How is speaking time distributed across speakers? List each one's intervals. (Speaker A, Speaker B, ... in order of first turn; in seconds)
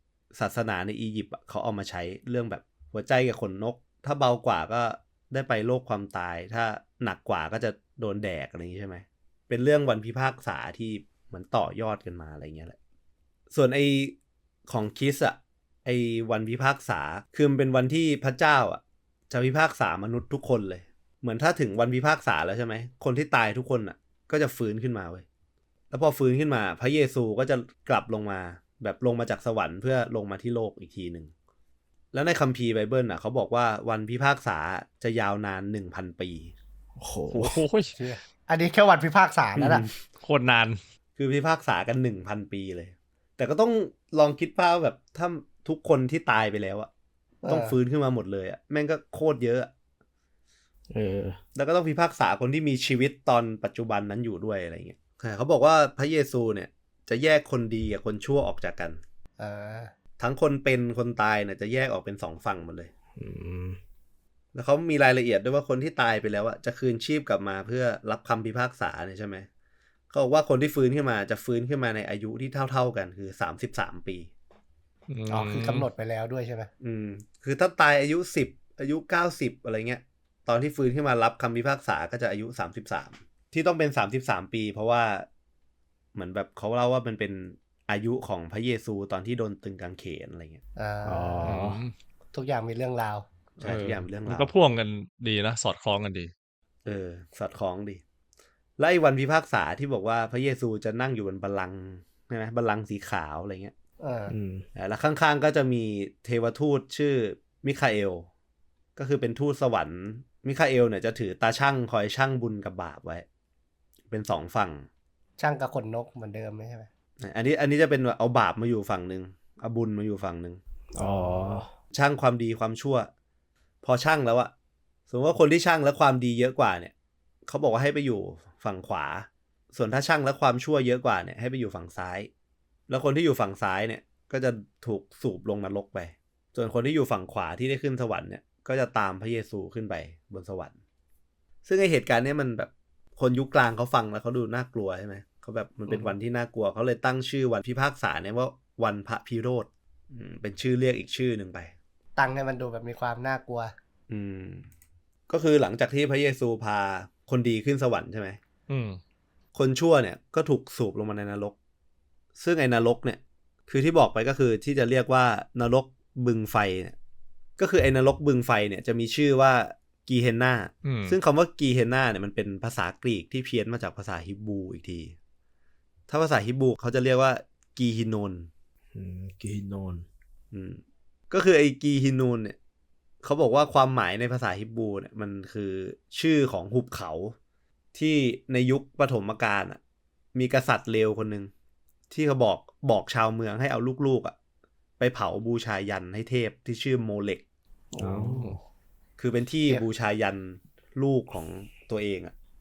Speaker A: 0.3-12.8, 13.5-14.2, 14.7-25.3, 25.9-31.3, 32.1-36.5, 39.6-40.0, 41.2-46.9, 47.5-49.7, 51.5-59.0, 60.2-62.9, 64.5-69.5, 70.1-74.3, 76.8-85.3, 86.2-90.6, 93.6-94.5, 96.8-98.0, 98.8-103.7, 104.8-108.3, 109.0-113.2, 114.1-114.9, 117.2-120.6, 121.9-123.1, 123.8-124.5, 125.1-126.9, 127.5-132.3, 132.9-140.8, 141.7-151.7, 154.1-154.7, 155.3-158.4, 159.6-161.6, 162.4-166.9, 167.6-175.2, 176.1-178.5, 180.5-182.6, 183.2-187.3, 187.9-189.8, 190.3-191.5, 192.1-194.3, 195.0-197.4, 199.2-202.3
Speaker B: 37.0-37.6, 50.9-51.4, 63.2-63.8, 91.0-91.8, 104.3-104.7, 120.9-121.7, 178.9-180.1, 198.0-198.6
Speaker C: 37.3-38.0, 40.2-40.8, 75.1-75.9, 91.5-91.9, 93.6-96.3, 158.7-159.0, 170.8-171.2, 198.2-198.6
Speaker D: 38.0-39.9, 47.4-47.8, 59.4-59.9, 75.3-76.7, 90.8-91.6, 92.3-93.3, 104.0-104.3, 115.4-116.9, 121.0-121.6, 145.9-146.1, 152.2-153.7, 197.9-198.3